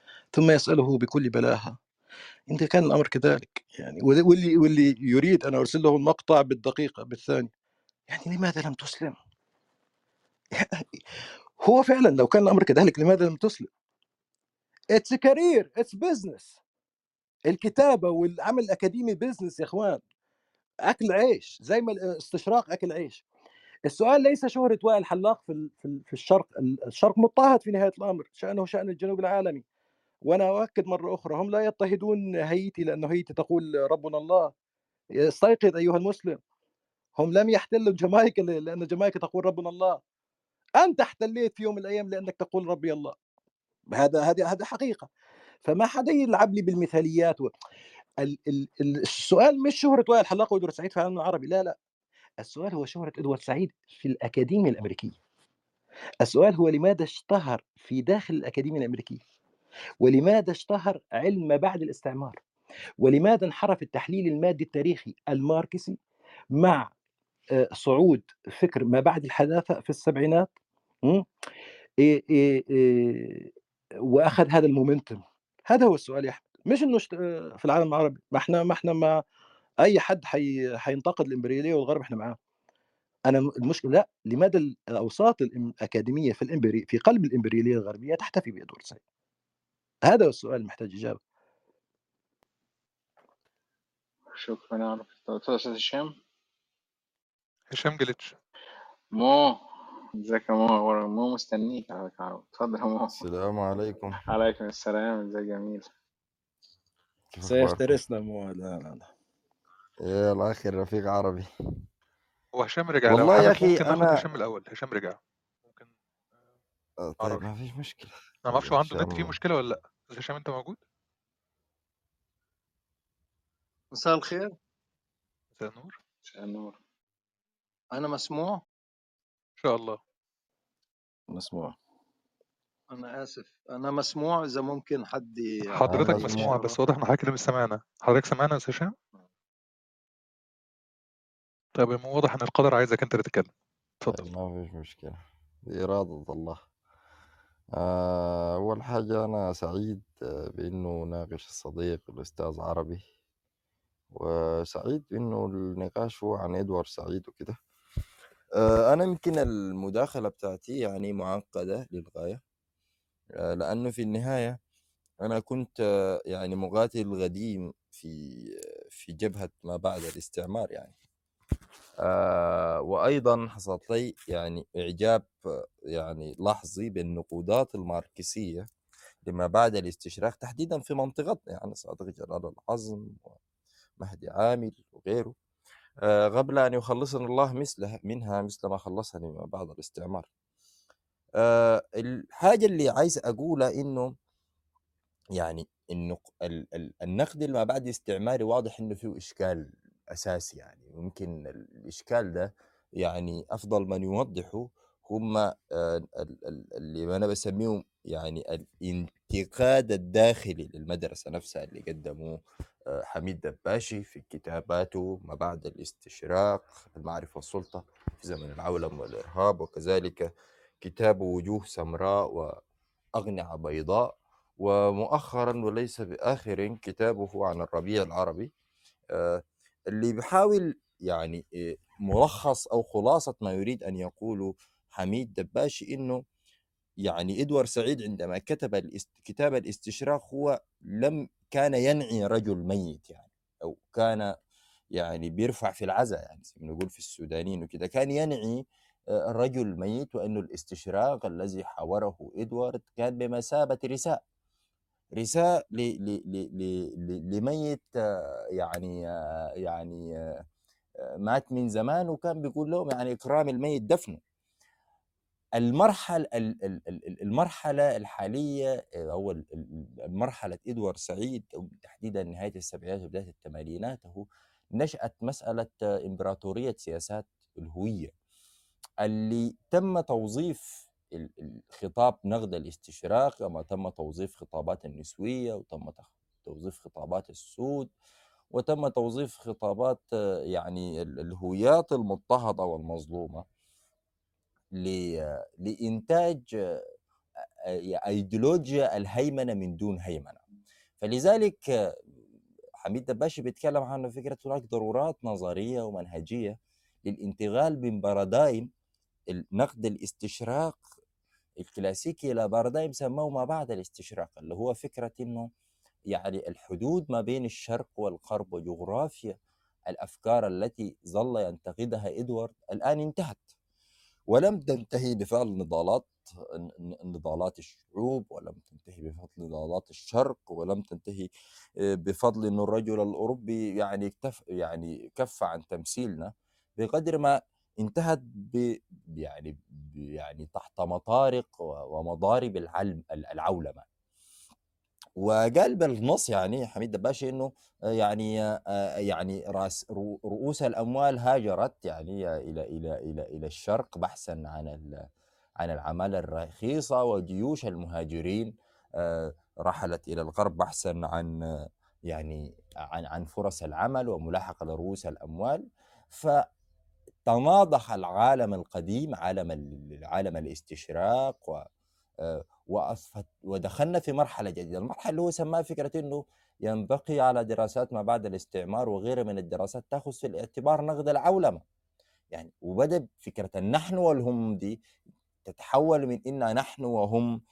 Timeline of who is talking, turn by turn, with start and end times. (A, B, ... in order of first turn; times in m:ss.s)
0:00.3-0:01.8 A
0:02.5-0:07.5 A
0:08.1-0:09.2 A
0:10.6-0:11.0 A
0:11.6-0:13.7 A
0:14.9-0:16.6 A
0:17.5-0:20.0 A
0:20.9-0:23.2 A
0:23.9-0:29.6 A
0:30.3-0:34.5 A
0:35.3-0:36.4 A
0:37.2-0:40.0 A
0:40.8-0:43.1 A
0:43.9-0:45.1 A
0:45.6-0:47.5 A
0:48.2-0:51.8 A
0:52.4-0:55.2 A
0:56.2-0:59.2 A
1:00.0-1:02.4 A
1:03.0-1:06.0 A
1:06.6-1:06.9 A
1:07.6-1:10.5 A
1:12.0-1:13.5 A
1:14.1-1:19.2 A
1:19.8-1:22.4 A
1:23.3-1:29.0 A
1:30.1-1:31.2 A
1:34.3-1:36.1 B
1:37.7-1:38.3 C
1:39.1-1:39.6 B
1:40.2-1:43.2 B
1:43.1-1:44.2 D
1:44.2-1:45.9 B
1:47.3-1:48.0 D
1:47.4-1:49.1 A
1:50.0-1:51.5 D
1:52.6-1:55.9 C
1:53.1-1:54.2 D
1:57.0-1:59.4 D
1:58.5-2:00.8 C
2:03.9-2:04.5 E
2:05.6-2:06.0 C
2:06.2-2:06.8 B
2:08.0-2:08.6 E
2:09.6-2:10.0 C
2:11.3-2:11.7 A
2:12.9-2:16.8 E
2:15.8-2:18.9 C
2:15.9-2:16.5 D
2:21.8-2:23.5 C
2:24.1-2:26.6 D
2:27.8-2:33.0 D
2:34.1-2:37.6 D
2:38.6-2:42.4 D
2:43.5-2:44.6 D
2:45.2-2:45.8 D
2:46.3-2:50.9 D
2:52.0-2:55.3 D
2:55.9-2:58.7 D
2:59.2-3:03.4 D
3:04.0-3:05.4 D
3:06.0-3:10.3 D
3:11.4-3:14.1 D
3:15.4-3:22.5 D
3:23.0-3:32.4 D
3:32.9-3:40.3 D
3:40.8-3:42.6 D
3:43.2-3:48.5 D
3:49.2-3:51.4 D
3:52.1-3:56.2 D
3:57.1-4:04.3 D
4:05.0-4:08.6 D
4:09.3-4:14.2 D
4:15.2-4:17.8 D
4:18.6-4:19.0 D
4:19.6-4:20.0 D
4:21.3-4:24.2 D
4:25.6-4:34.2 D
4:34.8-4:38.1 D
4:39.0-4:40.6 D
4:41.2-4:47.9 D
4:48.5-4:53.4 D
4:54.8-4:55.0 D
4:55.6-4:56.8 D
4:58.0-5:00.4 D
5:01.0-5:01.6 D
5:02.8-5:08.7 D
5:09.3-5:10.8 D
5:11.6-5:15.5 D
5:16.1-5:19.4 D
5:19.9-5:23.5 D
5:24.3-5:31.3 D
5:32.1-5:43.9 D
5:45.2-5:48.3 D
5:49.1-5:54.9 D
5:55.6-6:01.3 D
6:02.1-6:06.4 D
6:07.3-6:11.6 D
6:12.3-6:21.6 D
6:22.3-6:24.8 D
6:25.5-6:27.3 D